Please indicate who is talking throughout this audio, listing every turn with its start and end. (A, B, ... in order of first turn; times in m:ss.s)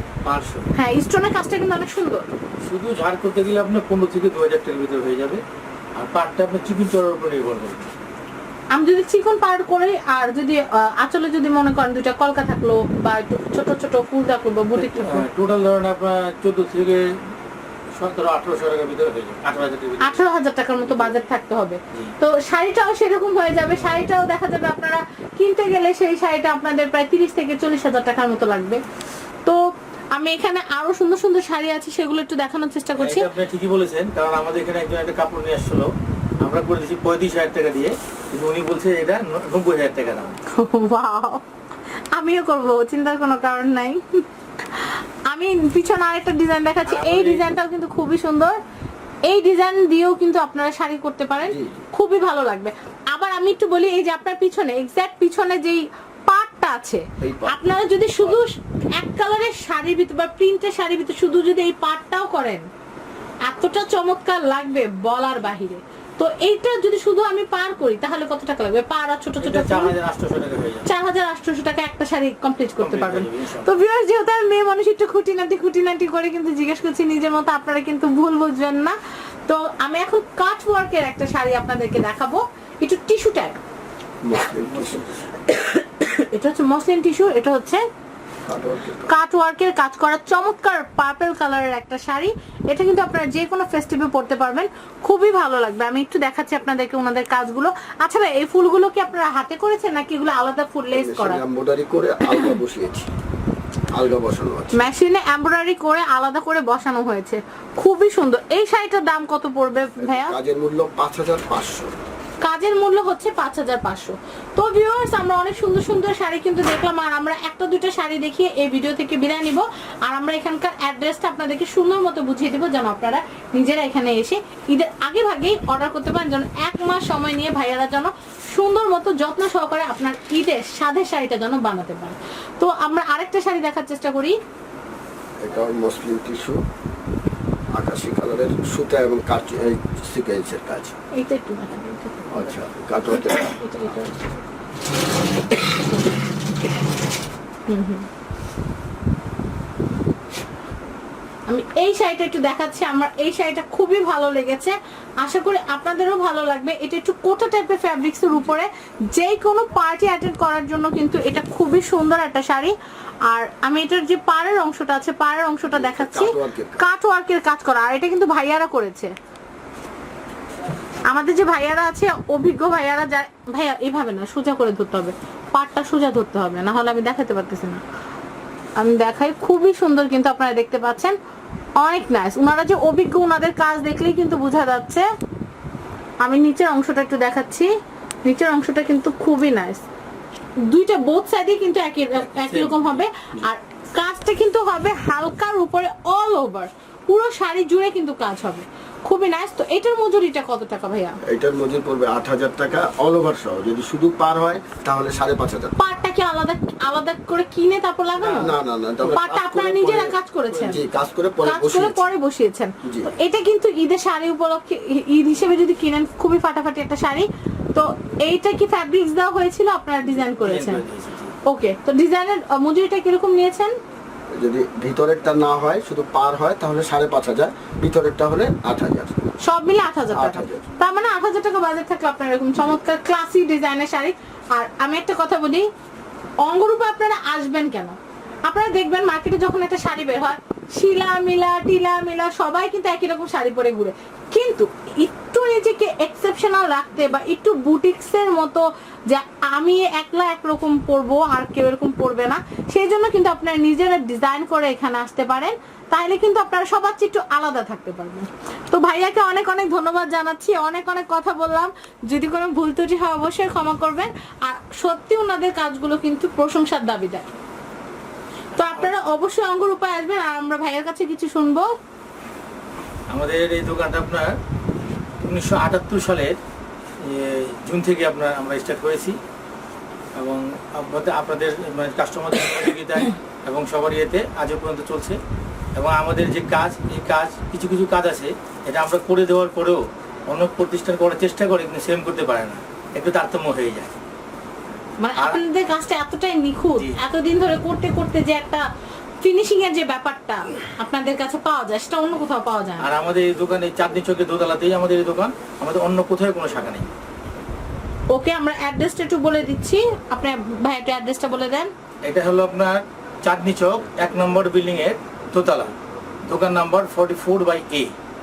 0:00.2-0:00.7 A
0:00.7-0:02.3 B
0:02.6-0:05.4 A
0:05.9-0:07.9 A
0:08.7-0:15.2 B
0:14.7-0:17.1 A
0:18.0-0:20.2 A
0:20.0-0:28.8 B
0:20.8-0:21.2 A
0:23.6-0:24.1 A
0:30.1-0:33.3 B
0:32.9-0:40.4 A
0:40.5-0:41.4 B
0:42.1-0:48.5 B
0:46.8-0:47.4 A
0:49.2-1:02.6 B
0:51.4-0:51.8 C
0:57.2-0:58.4 C
1:03.4-1:09.9 B
1:09.4-1:10.9 A
1:10.8-1:23.6 B
1:12.8-1:13.7 A
1:24.2-1:25.2 C
1:24.6-1:25.0 A
1:25.5-1:27.8 B
1:28.4-1:29.1 C
1:29.0-1:41.4 B
1:40.9-1:43.1 C
1:42.2-1:42.6 B
1:43.9-1:44.8 C
1:44.7-1:50.4 B
1:50.0-1:51.9 C
1:52.4-2:14.4 B
2:15.4-2:16.6 C
2:17.7-2:21.0 C
2:21.1-2:22.3 B
2:22.3-2:23.6 C
2:23.5-2:24.2 B
2:27.7-2:28.1 B
2:31.5-2:42.7 B
2:43.3-2:49.1 B
2:45.7-2:46.8 C
2:51.1-2:57.8 B
2:58.8-3:01.2 B
3:01.8-3:05.0 B
3:06.2-3:07.7 B
3:08.2-3:09.8 B
3:10.6-3:21.2 B
3:12.2-3:13.0 A
3:21.2-3:25.7 C
3:25.8-3:28.5 B
3:28.2-3:28.5 A
3:28.3-3:32.0 C
3:29.1-3:30.8 B
3:31.4-3:40.8 B
3:32.8-3:33.1 C
3:40.4-3:41.4 A
3:41.4-3:43.7 B
3:44.3-3:49.3 C
3:49.4-3:55.7 B
3:50.1-3:50.6 C
3:56.4-4:27.3 B
4:28.6-4:31.7 B
4:33.1-4:34.4 A
4:35.2-4:36.4 A
4:37.0-4:39.2 A
4:40.2-4:45.2 A
4:45.7-4:53.9 A
4:55.0-4:58.6 B
4:59.2-5:02.9 B
5:02.8-5:06.9 A
5:08.1-5:11.7 B
5:12.0-5:15.7 A
5:16.3-5:17.9 A